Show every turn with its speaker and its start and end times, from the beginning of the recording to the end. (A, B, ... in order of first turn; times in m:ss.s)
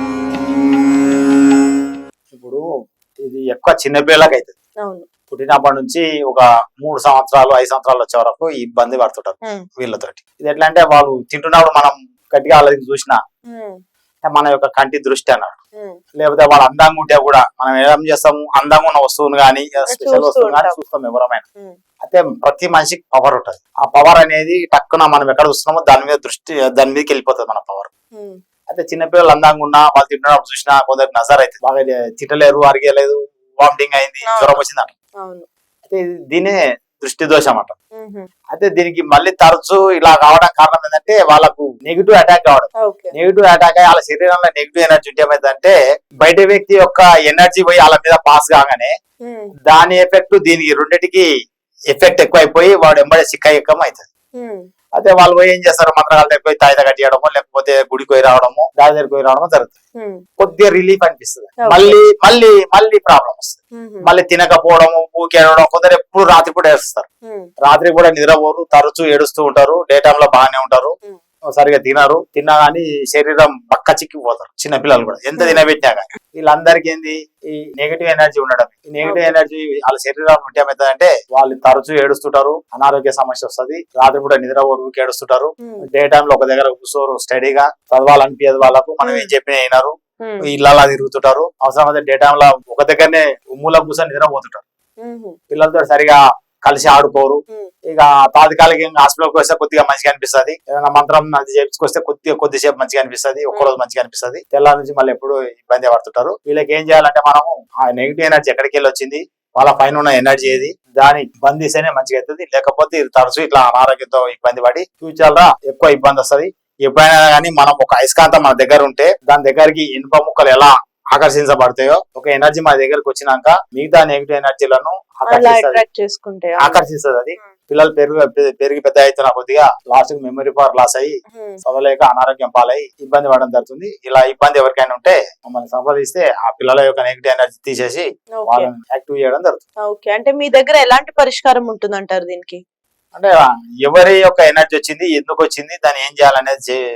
0:02.3-0:02.6 A
0:03.2-0:04.5 A
0:05.3-0:13.2 A
0:13.5-0:13.8 B
0:14.2-0:15.6 A
0:16.2-0:21.4 A
0:19.9-0:20.8 B
0:22.0-0:27.9 A
0:28.7-0:34.9 A
0:34.3-0:34.6 B
0:35.9-0:37.7 A
0:38.0-0:38.3 B
0:38.5-0:48.9 A
0:42.8-0:43.1 B
0:49.2-0:49.5 B
0:49.7-0:51.2 A
0:51.9-0:54.0 A
0:54.4-0:54.7 B
0:55.0-0:59.7 A
1:00.4-1:07.0 A
1:01.6-1:02.0 B
1:03.8-1:04.1 B
1:07.6-1:10.9 A
1:11.5-1:29.9 A
1:15.4-1:15.6 B
1:19.0-1:19.4 B
1:29.0-1:29.3 B
1:30.2-1:30.5 B
1:30.4-1:34.6 A
1:35.0-1:35.4 B
1:35.5-2:05.8 A
2:05.3-2:06.8 B
2:06.6-2:11.1 A
2:11.3-2:11.6 B
2:11.6-2:19.6 A
2:18.4-2:18.7 B
2:19.8-2:22.6 B
2:23.2-2:26.8 A